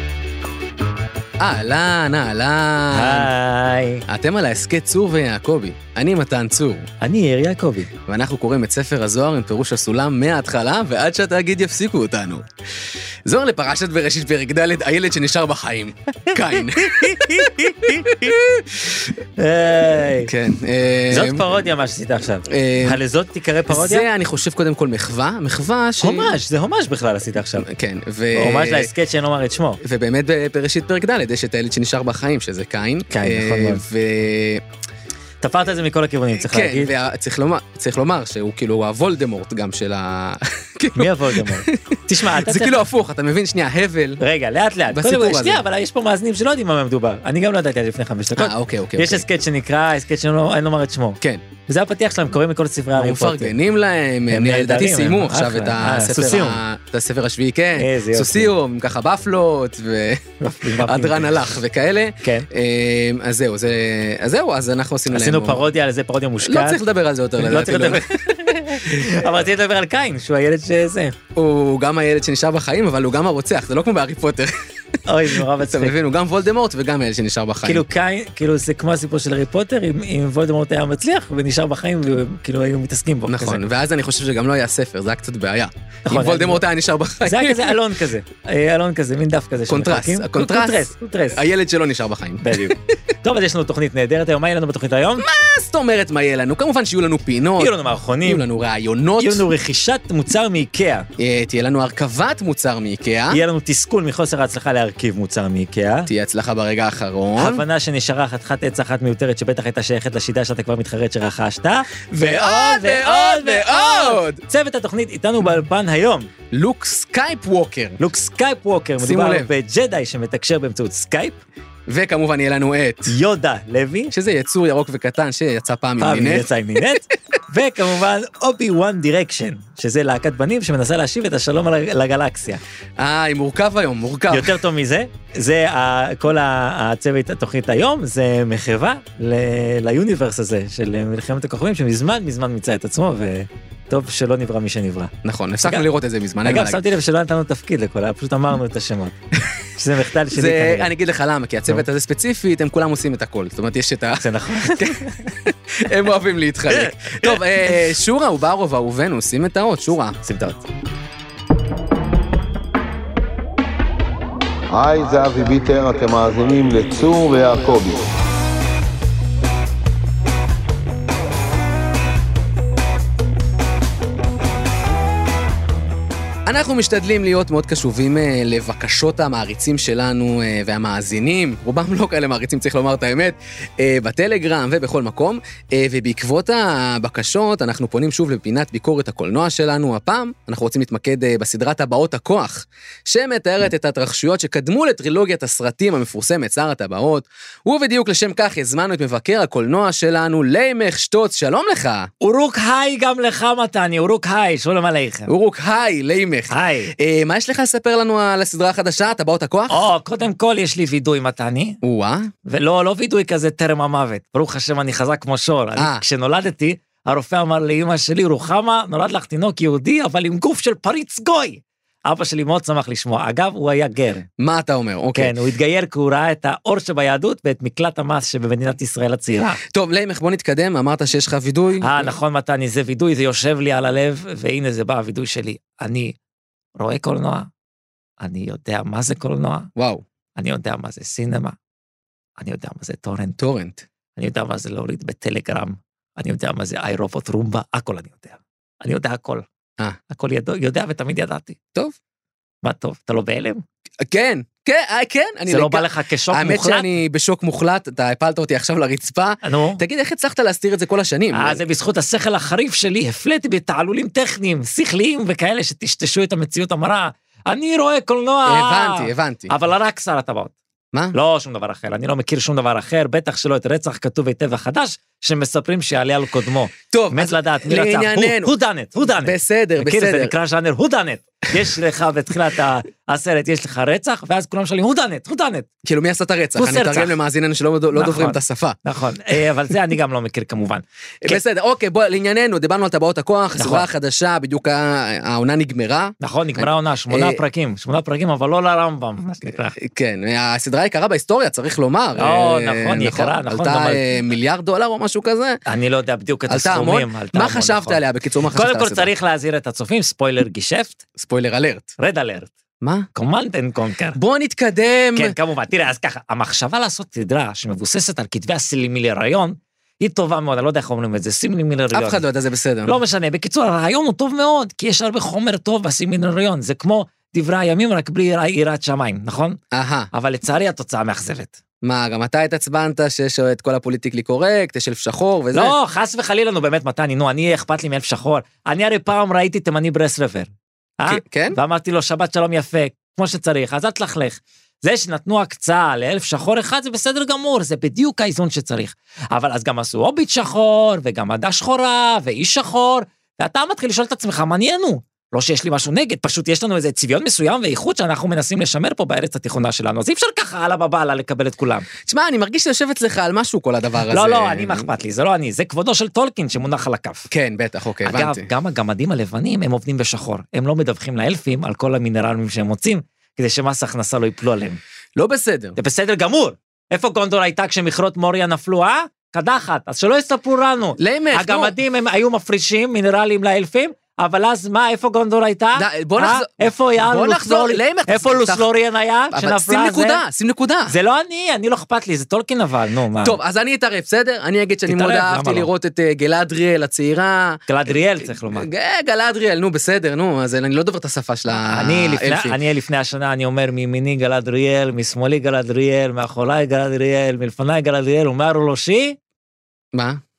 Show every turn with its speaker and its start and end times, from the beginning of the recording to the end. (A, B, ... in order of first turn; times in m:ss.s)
0:01.4-0:03.3 A
0:02.9-0:04.0 B
0:04.1-0:06.8 A
0:07.0-0:07.9 B
0:08.1-0:12.4 A
0:13.2-0:19.1 A
0:16.3-0:18.3 B
0:19.4-0:20.3 B
0:20.2-0:21.5 A
0:21.1-0:24.0 B
0:22.5-0:23.0 A
0:23.7-0:26.4 A
0:26.0-0:27.7 B
0:27.6-0:28.9 A
0:28.3-0:29.8 B
0:29.8-0:34.6 A
0:33.1-0:33.8 B
0:35.4-0:36.9 B
0:36.4-0:44.2 A
0:41.0-0:42.8 B
0:44.2-0:53.5 B
0:44.9-0:45.6 A
0:48.4-0:49.2 A
0:53.0-1:05.6 A
0:54.3-0:56.6 B
0:57.8-0:58.5 B
1:00.4-1:01.4 B
1:02.2-1:02.5 B
1:05.1-1:06.8 B
1:06.4-1:09.3 A
1:07.4-1:11.1 B
1:11.4-1:14.5 A
1:15.1-1:15.9 B
1:15.3-1:17.8 A
1:17.6-1:23.6 B
1:23.3-1:27.8 A
1:26.0-1:26.6 B
1:27.2-1:31.4 B
1:29.7-1:32.8 A
1:32.4-1:35.2 B
1:35.2-1:39.5 A
1:37.6-1:38.4 B
1:39.2-1:41.1 B
1:41.2-1:43.4 A
1:43.3-1:46.1 B
1:46.1-1:47.6 A
1:47.4-1:56.3 B
1:52.1-1:54.4 A
1:56.5-1:58.0 A
1:58.0-2:01.4 B
1:59.0-1:59.5 A
2:01.9-2:03.1 A
2:03.1-2:04.1 B
2:04.1-2:07.0 A
2:06.0-2:12.6 B
2:13.0-2:14.6 A
2:14.3-2:25.1 B
2:25.2-2:26.8 A
2:26.4-2:29.1 B
2:29.8-2:30.9 B
2:30.3-2:40.2 A
2:34.2-2:35.2 B
2:36.7-2:37.8 B
2:40.2-2:40.6 B
2:44.7-2:48.0 C
2:56.5-3:22.1 A
3:22.2-3:25.3 B
3:25.3-3:29.9 A
3:26.5-3:26.9 B
3:29.7-3:31.8 B
3:31.8-3:32.3 A
3:32.4-3:44.3 B
3:35.8-3:36.0 A
3:44.4-3:45.3 A
3:45.1-3:49.6 B
3:49.7-3:52.1 A
3:51.8-3:56.2 B
3:56.8-3:57.5 B
3:58.2-3:59.7 B
3:59.8-4:00.0 A
4:00.4-4:01.6 B
4:02.4-4:03.4 B
4:03.4-4:03.8 A
4:04.2-4:09.4 B
4:10.1-4:11.6 B
4:12.6-4:13.6 B
4:14.0-4:21.6 A
4:15.5-4:16.9 B
4:19.4-4:19.8 B
4:21.3-4:30.5 B
4:28.4-4:29.5 A
4:31.1-4:45.7 B
4:36.9-4:40.3 A
4:45.8-4:48.8 A
4:46.6-4:47.2 B
4:47.9-4:51.4 B
4:51.2-4:57.4 A
4:53.6-4:53.9 B
4:56.2-4:59.8 B
4:59.7-5:05.6 A
5:02.2-5:04.0 B
5:05.6-5:08.0 B
5:06.5-5:09.1 A
5:08.5-5:11.0 B
5:11.2-5:11.9 A
5:12.0-5:12.5 B
5:12.8-5:13.1 A
5:13.1-5:14.2 B
5:14.1-5:15.4 A
5:15.1-5:22.2 B
5:21.9-5:23.0 A
5:22.8-5:29.6 B
5:29.7-5:30.1 A
5:30.1-5:31.6 B
5:31.8-5:35.7 A
5:35.5-5:40.5 B
5:41.0-6:01.9 B
5:41.0-5:41.6 A
6:02.0-6:04.9 A
6:04.1-6:07.3 B
6:07.3-6:08.5 A
6:08.0-6:14.8 B
6:15.2-6:15.8 A
6:15.8-6:30.2 B
6:21.0-6:21.8 A
6:25.8-6:28.7 A
6:29.3-6:30.9 A
6:30.9-6:33.4 B
6:33.2-6:42.6 A
6:34.9-6:35.7 B
6:37.7-6:38.7 B
6:41.5-6:49.2 B
6:49.9-6:50.2 A